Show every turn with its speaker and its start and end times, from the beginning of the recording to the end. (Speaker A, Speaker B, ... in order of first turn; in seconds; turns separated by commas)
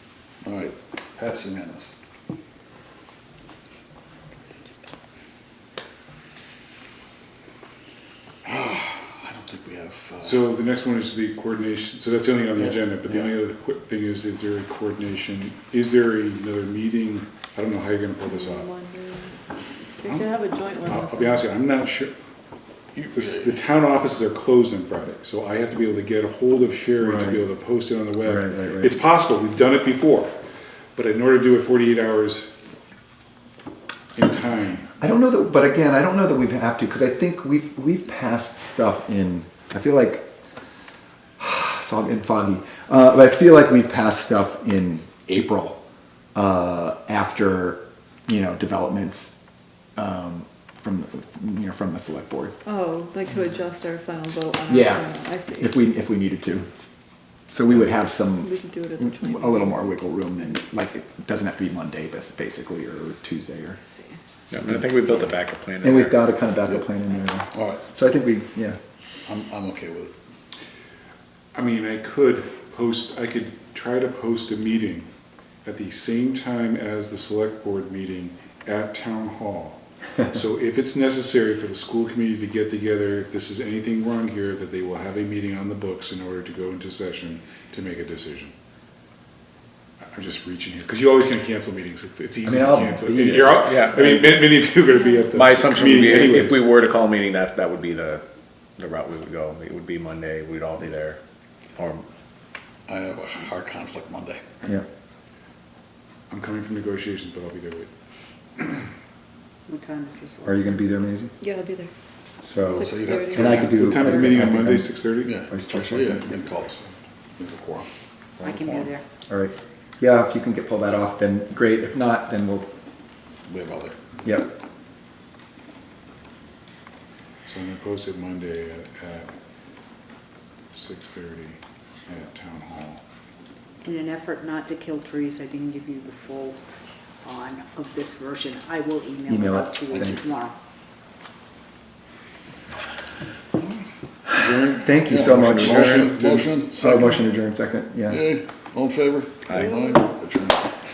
Speaker A: 0.4-1.9, Speaker A: 8.4-10.5, Speaker B: 10.2-18.7, Speaker A: 12.7-13.2, Speaker C: 18.3-19.3, Speaker C: 20.0-21.5, Speaker B: 20.0-22.1, Speaker B: 22.9-30.3, Speaker D: 27.0-27.4, Speaker D: 28.2-28.9, Speaker B: 30.9-32.5, Speaker B: 34.1-34.9, Speaker D: 35.0-40.3, Speaker D: 41.4-45.8, Speaker D: 46.3-49.4, Speaker D: 50.0-52.6, Speaker C: 52.6-55.8, Speaker D: 54.6-56.7, Speaker D: 57.5-63.8, Speaker C: 58.4-59.8, Speaker E: 64.5-66.2, Speaker D: 65.8-68.8, Speaker A: 67.5-67.8, Speaker A: 69.2-70.1, Speaker B: 71.5-75.1, Speaker B: 75.6-88.5, Speaker B: 90.0-96.6, Speaker D: 92.4-93.8, Speaker E: 93.4-94.5, Speaker E: 95.3-98.2, Speaker E: 98.8-101.2, Speaker E: 101.8-102.0, Speaker A: 102.9-104.6, Speaker B: 106.3-107.9, Speaker B: 108.5-108.8, Speaker F: 109.7-110.9, Speaker D: 110.4-111.3, Speaker C: 111.4-111.9, Speaker D: 112.4-116.1, Speaker C: 112.6-114.5, Speaker A: 112.6-113.9, Speaker B: 113.7-116.9, Speaker A: 115.2-116.7, Speaker A: 117.4-118.9, Speaker F: 118.4-119.0, Speaker D: 119.3-122.7, Speaker A: 123.5-124.4, Speaker D: 124.2-124.5, Speaker B: 127.4-129.3, Speaker B: 130.7-133.0, Speaker F: 133.8-136.6, Speaker F: 137.2-140.5, Speaker D: 139.3-140.3, Speaker A: 139.9-140.3, Speaker B: 144.3-146.6, Speaker D: 144.7-148.3, Speaker A: 145.1-147.2, Speaker A: 148.1-150.6, Speaker E: 149.5-149.8